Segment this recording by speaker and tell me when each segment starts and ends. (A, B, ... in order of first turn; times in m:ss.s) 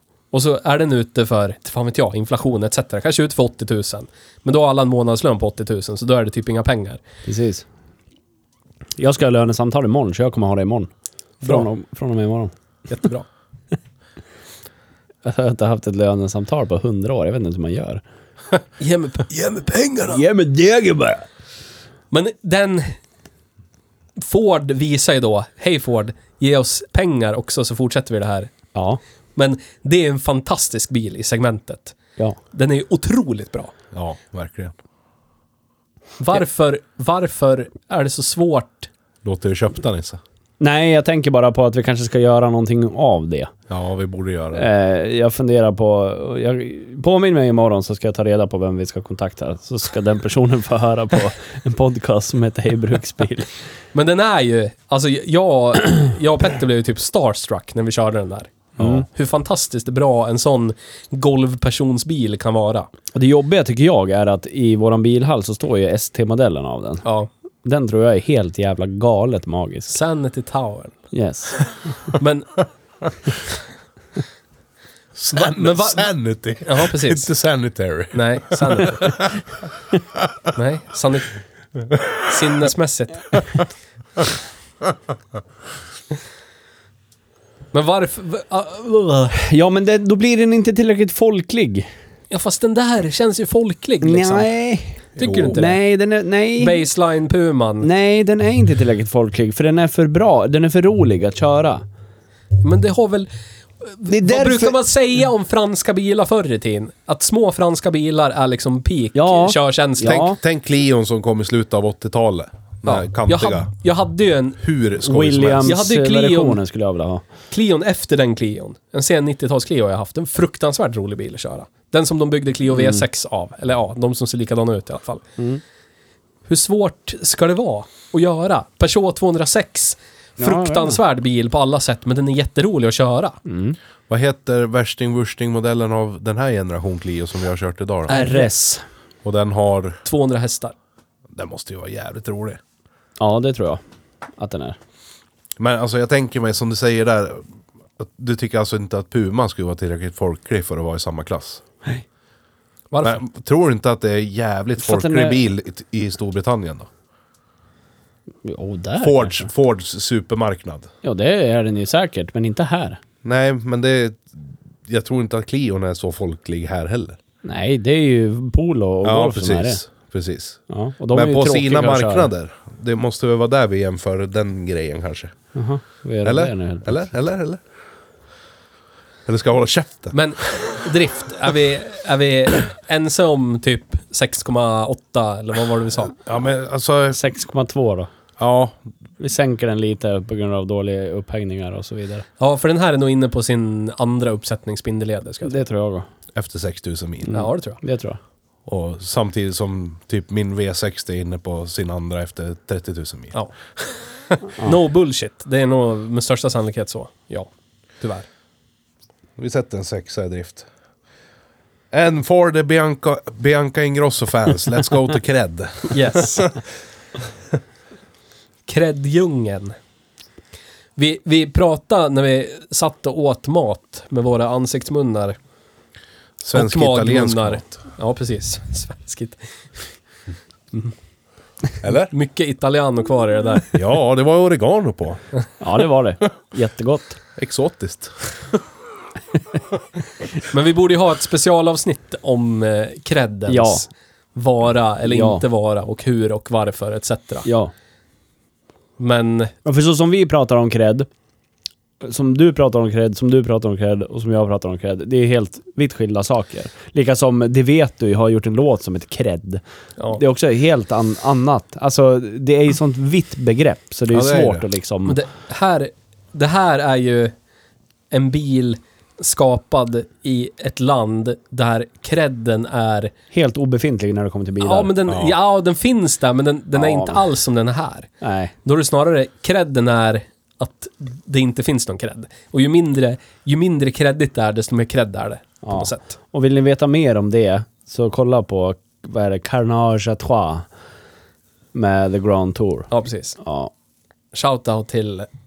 0:00.3-0:07.0 A
0:07.3-0:07.6 B
0:09.0-0:10.9 B
0:11.4-0:12.5 B
0:12.9-0:13.3 A
0:15.2-0:18.0 B
0:18.8-0:20.2 A
0:20.1-0:21.2 B
0:22.1-0:23.0 A
0:24.2-0:28.5 A
0:28.7-0:29.0 B
0:29.4-0:32.0 A
0:32.5-0:33.7 A
0:33.9-0:34.7 C
0:36.2-0:38.9 A
0:39.2-0:40.2 C
0:40.6-0:43.5 B
0:43.7-0:44.7 C
0:44.5-0:53.5 B
0:53.9-1:02.9 A
0:58.8-0:59.0 B
1:03.1-1:07.0 B
1:07.0-1:07.3 A
1:07.6-1:10.0 B
1:09.9-1:11.0 A
1:11.1-1:11.7 B
1:12.2-1:12.6 A
1:15.2-1:19.4 C
1:15.3-1:16.1 A
1:16.6-1:17.3 A
1:18.1-1:19.2 A
1:20.5-1:21.3 A
1:22.3-1:23.4 A
1:27.7-1:29.4 A
1:29.3-1:31.9 B
1:32.3-1:34.5 A
1:34.0-1:36.8 B
1:35.2-1:35.8 A
1:35.2-1:35.6 C
1:36.6-1:37.9 A
1:37.8-1:41.8 B
1:42.6-1:50.3 A
1:44.1-1:44.8 B
1:49.1-1:50.4 B
1:50.0-1:53.7 C
1:52.8-1:54.6 A
1:54.6-1:55.8 C
1:55.0-1:57.2 B
1:55.6-1:56.6 A
1:57.5-2:05.2 A
2:02.7-2:03.0 B
2:06.5-2:13.4 A
2:10.4-2:11.0 B
2:13.5-2:13.8 B
2:14.1-2:18.2 C
2:18.1-2:18.8 B
2:18.1-2:18.4 A
2:19.2-2:20.0 C
2:20.0-2:20.7 A
2:21.3-2:22.6 C
2:23.2-2:23.8 B
2:24.4-2:24.8 B
2:25.6-2:27.4 C
2:28.0-2:31.6 C
2:32.9-2:33.2 A
2:33.0-2:36.9 C
2:34.8-2:35.4 B
2:38.4-2:39.5 B
2:39.0-2:40.9 C
2:41.0-2:43.0 B
2:43.2-2:47.2 C
2:47.4-2:49.8 B
2:49.0-2:55.3 C
2:50.7-2:52.3 B
2:55.6-2:57.0 B
2:56.2-2:57.6 C
2:59.3-3:00.6 C
3:00.1-3:06.2 A
3:06.2-3:07.2 C
3:07.1-3:08.1 B
3:08.4-3:08.8 C
3:09.2-3:12.3 B
3:12.4-3:15.6 A
3:15.4-3:16.1 B
3:16.4-3:17.4 C
3:17.3-3:18.2 B
3:17.3-3:17.8 A
3:18.7-3:23.4 C
3:24.6-3:27.5 A
3:28.0-3:28.3 A
3:29.4-3:30.7 C
3:31.9-3:36.5 C
3:35.9-3:36.5 A
3:38.7-3:39.8 A
3:41.0-3:45.4 A
3:46.4-3:47.6 C
3:46.5-3:49.9 A
3:51.8-3:52.1 C
3:52.1-3:53.8 A
3:53.7-3:55.2 C
3:55.6-3:57.2 B
3:57.4-3:58.1 C
4:00.5-4:07.5 A
4:03.5-4:03.8 B
4:05.1-4:05.4 B
4:07.4-4:07.7 B
4:09.0-4:09.5 A
4:09.6-4:11.1 B
4:12.0-4:19.6 B
4:20.1-4:25.2 B
4:24.1-4:24.6 C
4:25.1-4:27.3 A
4:28.1-4:33.1 A
4:33.3-4:35.0 B
4:34.6-4:38.1 A
4:35.1-4:35.4 C
4:36.8-4:37.2 B
4:38.2-4:38.5 B
4:38.6-4:46.2 A
4:45.6-4:50.7 B
4:51.7-4:53.7 B
4:52.9-4:53.4 A
4:54.3-4:55.3 A